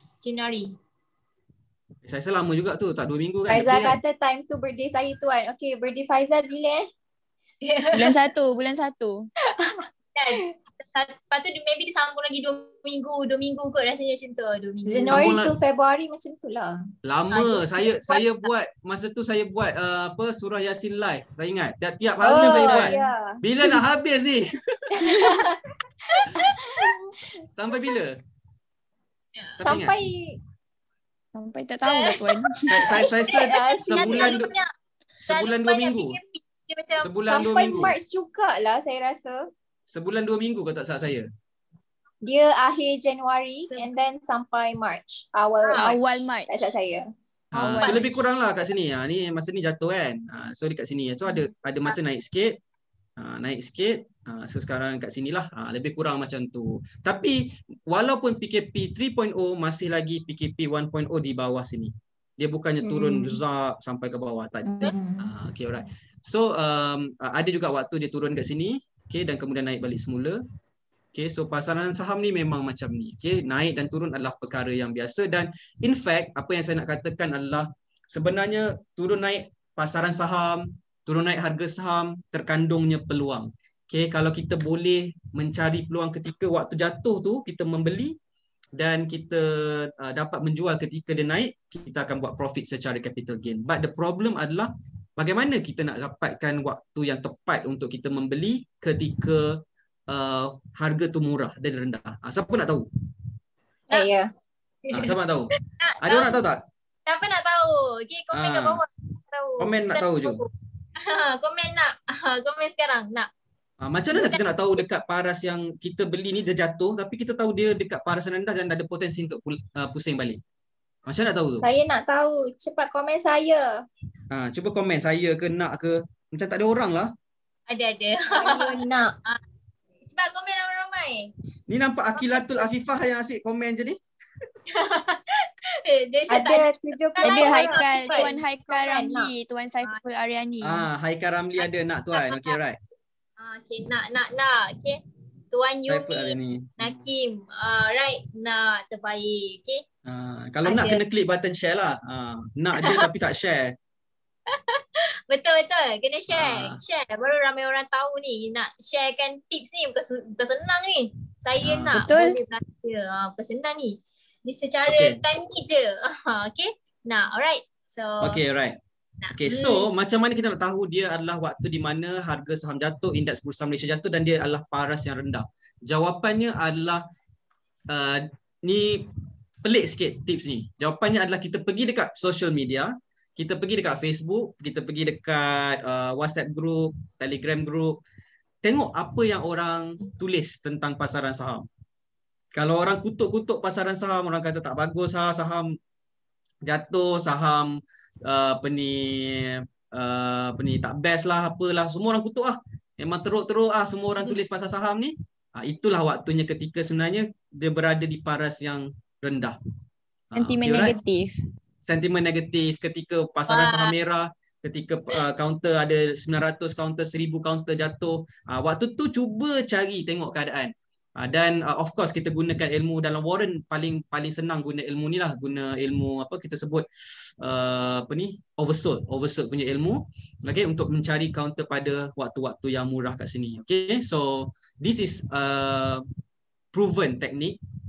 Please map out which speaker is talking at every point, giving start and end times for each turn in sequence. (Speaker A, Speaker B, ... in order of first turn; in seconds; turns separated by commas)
Speaker A: 0.2-0.7, Speaker B: 2.0-4.0, Speaker C: 3.5-6.9, Speaker A: 7.6-8.2, Speaker D: 7.9-9.3, Speaker A: 9.6-15.2, Speaker C: 14.8-18.2, Speaker B: 15.1-15.5, Speaker B: 17.0-25.1, Speaker D: 22.2-23.1, Speaker C: 22.2-23.4, Speaker A: 25.0-25.6, Speaker D: 25.0-25.3, Speaker A: 26.1-26.9, Speaker C: 26.4-27.0, Speaker B: 27.5-28.2, Speaker B: 29.6-29.9, Speaker C: 29.6-30.4, Speaker D: 31.3-32.9, Speaker A: 31.8-34.7, Speaker B: 32.7-34.5, Speaker C: 32.9-34.4, Speaker B: 35.2-36.2, Speaker A: 35.3-37.1, Speaker B: 37.0-38.0, Speaker C: 37.3-39.5, Speaker B: 39.9-41.3, Speaker C: 42.2-47.1, Speaker A: 45.6-45.9, Speaker D: 45.8-46.5, Speaker B: 47.5-52.6, Speaker D: 47.5-48.2, Speaker B: 53.2-70.4, Speaker C: 62.8-63.4, Speaker C: 64.6-65.3, Speaker B: 71.1-88.2, Speaker B: 88.8-102.8, Speaker C: 103.9-104.3, Speaker A: 104.8-106.4, Speaker B: 104.9-106.6, Speaker A: 107.1-113.3, Speaker B: 108.3-108.8, Speaker B: 109.6-110.4, Speaker B: 113.8-120.4, Speaker A: 114.1-114.8, Speaker B: 121.0-121.7, Speaker C: 121.6-123.8, Speaker B: 124.3-127.1, Speaker A: 127.7-129.4, Speaker C: 128.3-129.1, Speaker A: 130.1-131.3, Speaker B: 131.7-134.0, Speaker A: 132.2-132.5, Speaker A: 134.7-138.3, Speaker C: 136.3-139.3, Speaker D: 137.2-140.8, Speaker B: 140.6-142.8, Speaker A: 142.1-142.5, Speaker A: 143.4-145.0, Speaker A: 145.5-149.8, Speaker B: 145.9-147.0, Speaker B: 150.0-153.8, Speaker A: 150.6-151.0, Speaker A: 152.8-153.1, Speaker A: 154.5-168.4, Speaker B: 156.3-156.8, Speaker B: 161.6-162.0, Speaker D: 161.9-162.4, Speaker B: 164.9-165.2, Speaker B: 168.2-168.8, Speaker A: 169.2-169.9, Speaker B: 169.3-177.0, Speaker B: 177.9-188.0, Speaker B: 188.6-191.7, Speaker B: 192.5-195.8, Speaker B: 196.6-209.6, Speaker B: 210.3-211.0, Speaker D: 210.3-211.3, Speaker B: 211.8-226.9, Speaker A: 213.5-213.9, Speaker B: 227.4-236.0, Speaker B: 236.7-237.6